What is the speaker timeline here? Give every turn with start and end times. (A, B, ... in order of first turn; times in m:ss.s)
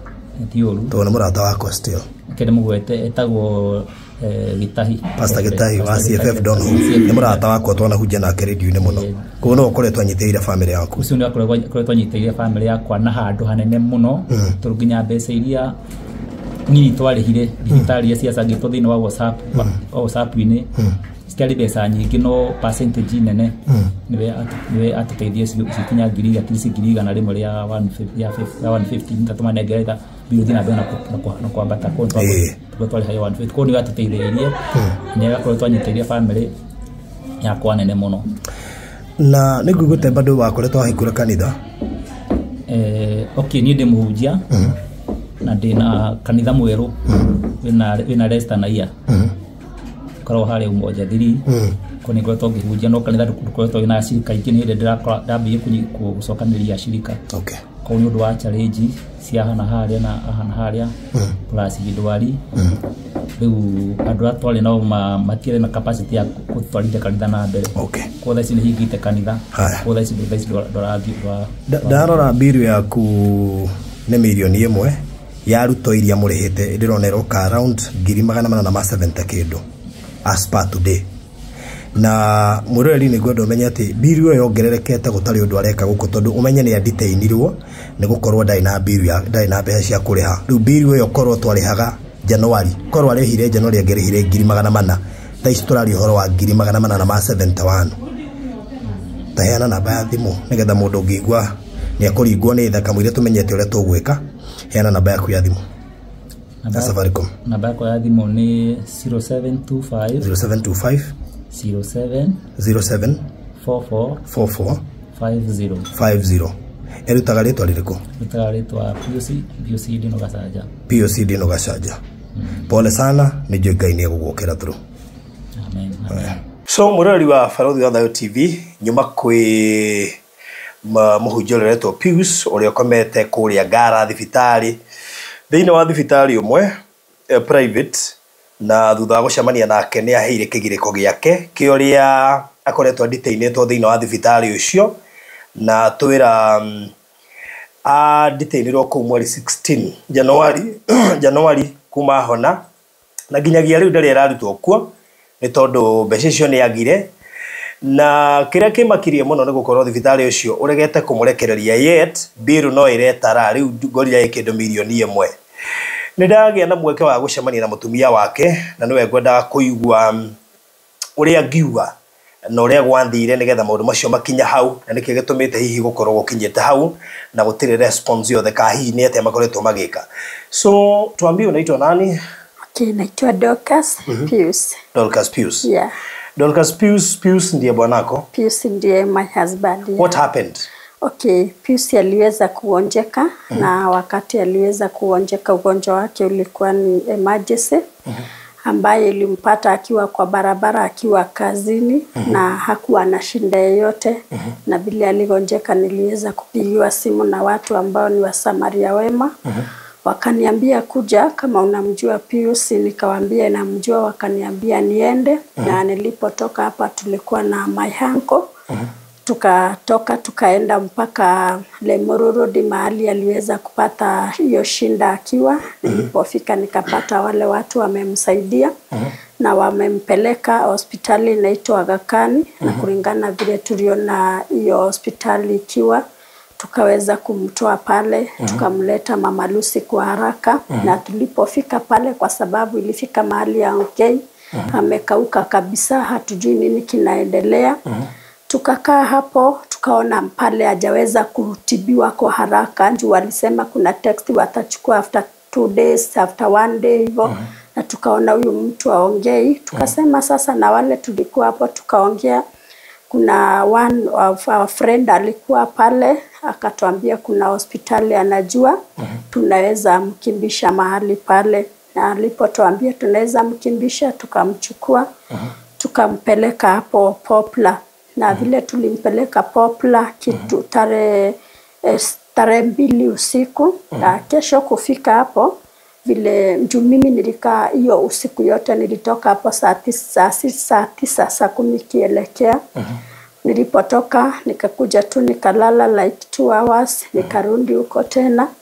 0:00.4-0:01.0 A
0:00.9-0:02.1 B
0:02.3-0:07.4 A
0:05.2-0:11.0 B
0:08.8-0:09.6 A
0:11.0-0:15.7 A
0:16.7-0:20.8 A
0:21.3-0:36.5 A
0:32.2-0:32.6 B
0:37.4-0:38.2 A
0:39.2-0:41.6 B
0:42.7-0:44.7 A
0:45.4-0:48.9 A
0:50.2-0:51.5 A
0:51.5-0:51.8 B
0:52.0-0:57.2 A
0:57.3-0:57.6 B
0:57.8-1:00.9 A
1:01.5-1:02.4 A
1:03.4-1:12.3 A
1:07.8-1:08.1 B
1:09.5-1:09.8 B
1:11.7-1:19.6 B
1:20.2-1:21.0 B
1:22.0-1:38.0 B
1:39.4-1:45.6 B
1:46.6-1:50.3 A
1:46.7-1:47.3 B
1:50.2-1:51.1 B
1:51.5-1:52.4 A
1:52.6-1:53.2 B
1:53.6-1:54.3 A
1:54.3-1:54.8 B
1:55.2-1:55.9 A
1:56.0-1:56.5 B
1:57.1-1:58.0 B
1:58.2-2:00.7 A
2:00.9-2:02.0 B
2:02.4-2:02.7 A
2:02.7-2:04.8 B
2:05.6-2:06.4 A
2:06.7-2:10.2 B
2:10.8-2:14.8 B
2:15.5-2:16.7 B
2:17.3-2:25.0 B
2:25.6-2:26.9 B
2:27.9-2:32.6 B
2:33.3-2:37.1 B
2:37.8-2:45.3 B
2:46.2-2:50.3 B
2:51.2-2:51.9 B
2:52.5-3:02.2 B
3:02.7-3:04.8 C
3:04.9-3:05.7 B
3:05.6-3:05.9 C
3:06.4-3:08.3 B
3:08.3-3:10.1 C
3:10.0-3:10.7 B
3:11.0-3:17.8 C
3:18.7-3:29.3 C
3:30.0-3:38.5 C
3:39.3-3:48.7 C
3:49.4-3:56.0 C
3:56.6-4:07.8 C
4:08.5-4:22.4 C
4:23.1-4:28.8 C
4:29.3-4:35.1 C
4:35.8-4:45.5 C
4:46.0-4:52.6 C
4:53.4-4:58.5 C